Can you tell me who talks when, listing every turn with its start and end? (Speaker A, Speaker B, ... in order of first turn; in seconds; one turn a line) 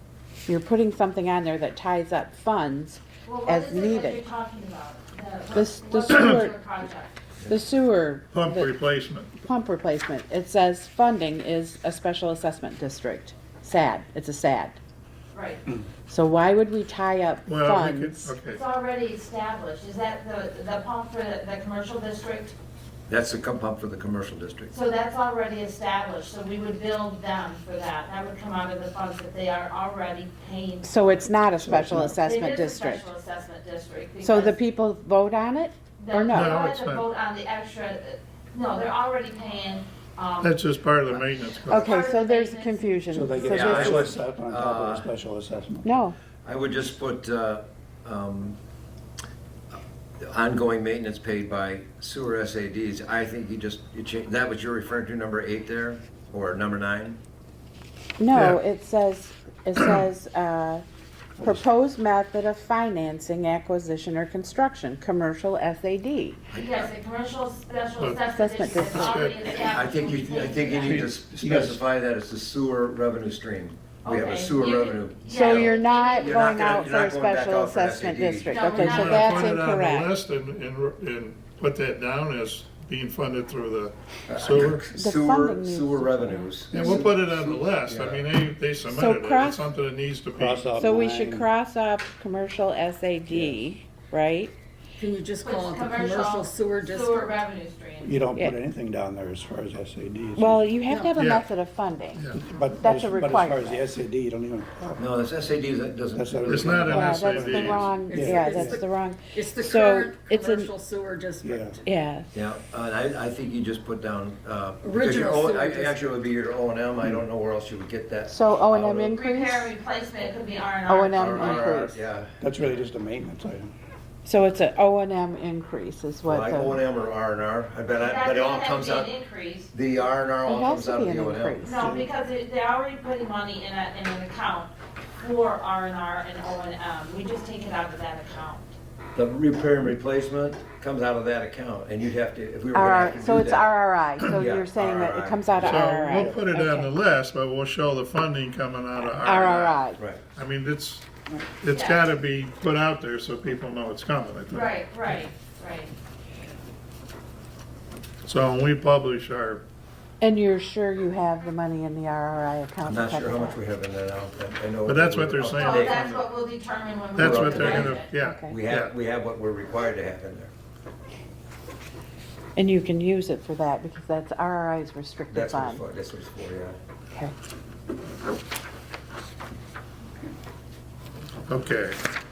Speaker A: 0.5-4.2
Speaker B: 3.2-7.1
Speaker A: 5.5-6.5
Speaker A: 7.5-8.7
Speaker C: 8.3-9.3
Speaker A: 9.4-14.8
Speaker B: 15.3-15.6
Speaker A: 16.1-18.4
Speaker C: 17.5-18.6
Speaker B: 18.5-22.5
Speaker D: 23.1-24.7
Speaker B: 24.7-31.2
Speaker A: 30.8-33.1
Speaker E: 31.6-32.1
Speaker B: 32.0-34.5
Speaker A: 34.2-36.6
Speaker B: 36.0-40.6
Speaker C: 36.3-37.0
Speaker C: 40.4-41.9
Speaker B: 41.6-43.6
Speaker A: 41.7-44.2
Speaker E: 43.1-45.9
Speaker D: 43.5-45.1
Speaker A: 45.8-46.1
Speaker D: 46.4-48.6
Speaker D: 50.2-57.2
Speaker A: 58.2-60.8
Speaker C: 58.3-58.6
Speaker E: 61.4-61.6
Speaker A: 61.4-66.4
Speaker D: 66.5-66.9
Speaker B: 66.5-71.1
Speaker A: 68.3-69.6
Speaker C: 68.8-69.5
Speaker D: 69.6-78.8
Speaker E: 70.8-71.8
Speaker B: 74.0-76.7
Speaker A: 75.3-80.1
Speaker B: 78.5-79.5
Speaker C: 78.7-84.8
Speaker D: 84.3-88.2
Speaker A: 84.9-87.0
Speaker C: 86.7-90.6
Speaker A: 88.9-89.6
Speaker E: 90.3-91.5
Speaker A: 90.8-94.5
Speaker F: 95.0-97.3
Speaker B: 95.4-98.1
Speaker E: 98.0-100.6
Speaker A: 100.4-103.8
Speaker F: 100.9-101.2
Speaker C: 101.2-101.5
Speaker E: 102.3-105.0
Speaker D: 105.0-107.1
Speaker E: 106.1-108.7
Speaker C: 106.5-107.9
Speaker A: 106.9-110.7
Speaker F: 107.8-111.8
Speaker E: 111.4-111.8
Speaker A: 111.8-112.3
Speaker D: 112.3-119.1
Speaker F: 114.8-116.0
Speaker A: 118.3-119.7
Speaker B: 119.1-121.8
Speaker A: 120.9-122.0
Speaker D: 121.1-122.3
Speaker E: 122.4-123.7
Speaker A: 124.2-126.8
Speaker D: 126.2-129.1
Speaker B: 128.0-129.7
Speaker D: 129.7-131.6
Speaker A: 130.4-131.8
Speaker B: 131.6-138.7
Speaker E: 131.8-132.1
Speaker D: 139.1-143.7
Speaker A: 142.7-146.9
Speaker D: 144.2-145.6
Speaker E: 145.6-146.4
Speaker C: 145.6-154.7
Speaker A: 149.0-150.0
Speaker D: 149.9-150.2
Speaker B: 151.7-152.0
Speaker B: 154.5-155.9
Speaker C: 158.2-159.6
Speaker A: 160.2-163.6
Speaker D: 162.8-166.1
Speaker C: 164.8-166.3
Speaker B: 165.5-168.1
Speaker C: 167.2-168.9
Speaker D: 167.2-170.5
Speaker A: 168.2-168.5
Speaker A: 172.6-175.8
Speaker D: 175.3-176.8
Speaker C: 181.5-182.0